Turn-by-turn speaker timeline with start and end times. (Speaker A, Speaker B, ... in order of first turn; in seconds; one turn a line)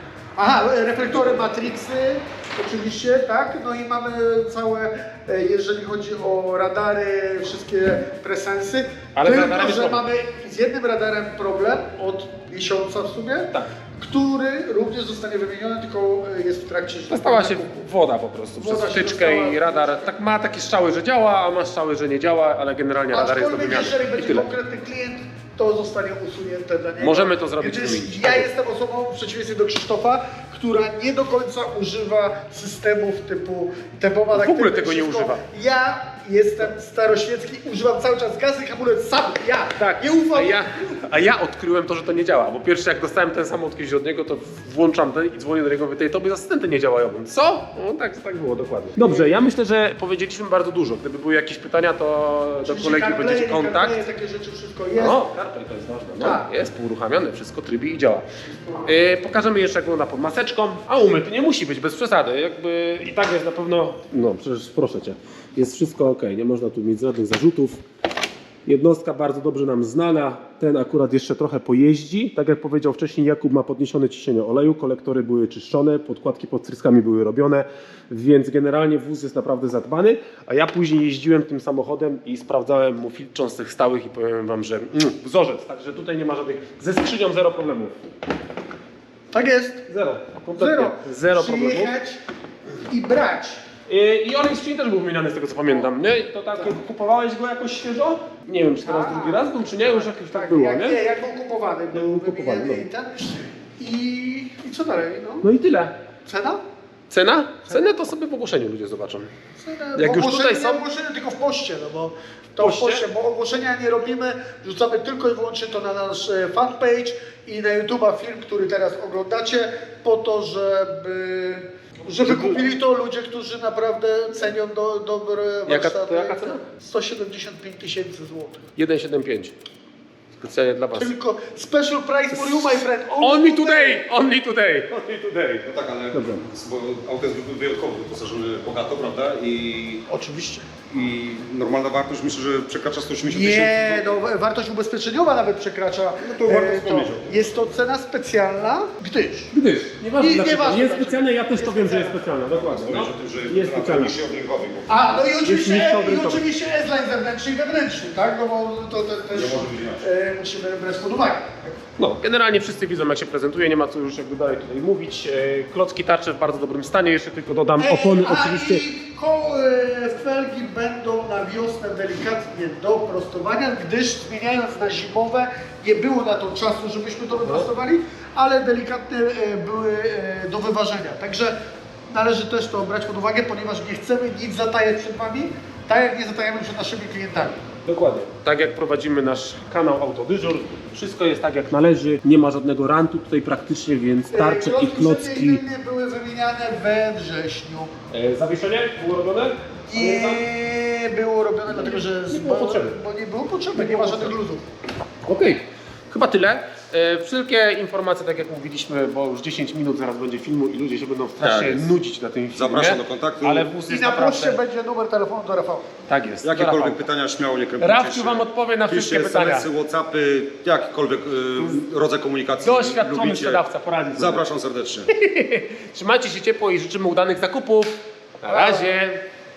Speaker A: 0.4-17.9
Speaker B: 9.2-10.0
Speaker B: 17.1-24.5
Speaker A: 18.6-20.1
Speaker A: 23.1-40.6
Speaker B: 27.0-28.5
Speaker B: 34.3-35.4
Speaker B: 39.8-54.0
Speaker A: 49.0-49.5
Speaker A: 52.6-55.2
Speaker B: 55.0-58.2
Speaker A: 56.2-56.5
Speaker B: 58.8-67.8
Speaker B: 68.7-88.0
Speaker A: 89.3-89.9
Speaker B: 89.9-91.9
Speaker A: 90.5-92.2
Speaker A: 92.9-93.6
Speaker B: 93.9-101.0
Speaker A: 98.8-105.5
Speaker B: 101.9-102.9
Speaker B: 105.4-106.0
Speaker A: 106.3-106.6
Speaker B: 107.1-109.3
Speaker A: 109.6-128.6
Speaker B: 110.0-110.8
Speaker B: 112.6-113.0
Speaker B: 122.2-122.6
Speaker B: 125.7-126.6
Speaker B: 128.8-129.6
Speaker B: 130.4-131.2
Speaker A: 130.9-134.1
Speaker B: 132.3-136.5
Speaker C: 135.7-140.1
Speaker A: 140.1-140.7
Speaker C: 140.9-144.2
Speaker A: 143.3-149.5
Speaker C: 146.2-147.3
Speaker B: 149.5-154.2
Speaker A: 150.2-152.2
Speaker C: 152.6-155.3
Speaker A: 154.9-161.7
Speaker B: 155.4-156.4
Speaker C: 159.3-160.1
Speaker B: 162.0-168.8
Speaker A: 167.8-181.6
Speaker B: 177.4-177.7
Speaker A: 182.1-187.6
Speaker B: 187.9-195.6
Speaker A: 194.3-197.9
Speaker B: 198.1-200.4
Speaker A: 199.9-204.6
Speaker B: 201.7-202.9
Speaker B: 203.8-204.3
Speaker B: 205.3-214.6
Speaker C: 211.4-211.9
Speaker C: 212.5-213.7
Speaker A: 213.9-215.9
Speaker B: 216.1-217.0
Speaker C: 216.4-225.1
Speaker B: 217.8-219.7
Speaker B: 222.6-224.4
Speaker B: 225.1-229.2
Speaker A: 228.5-228.9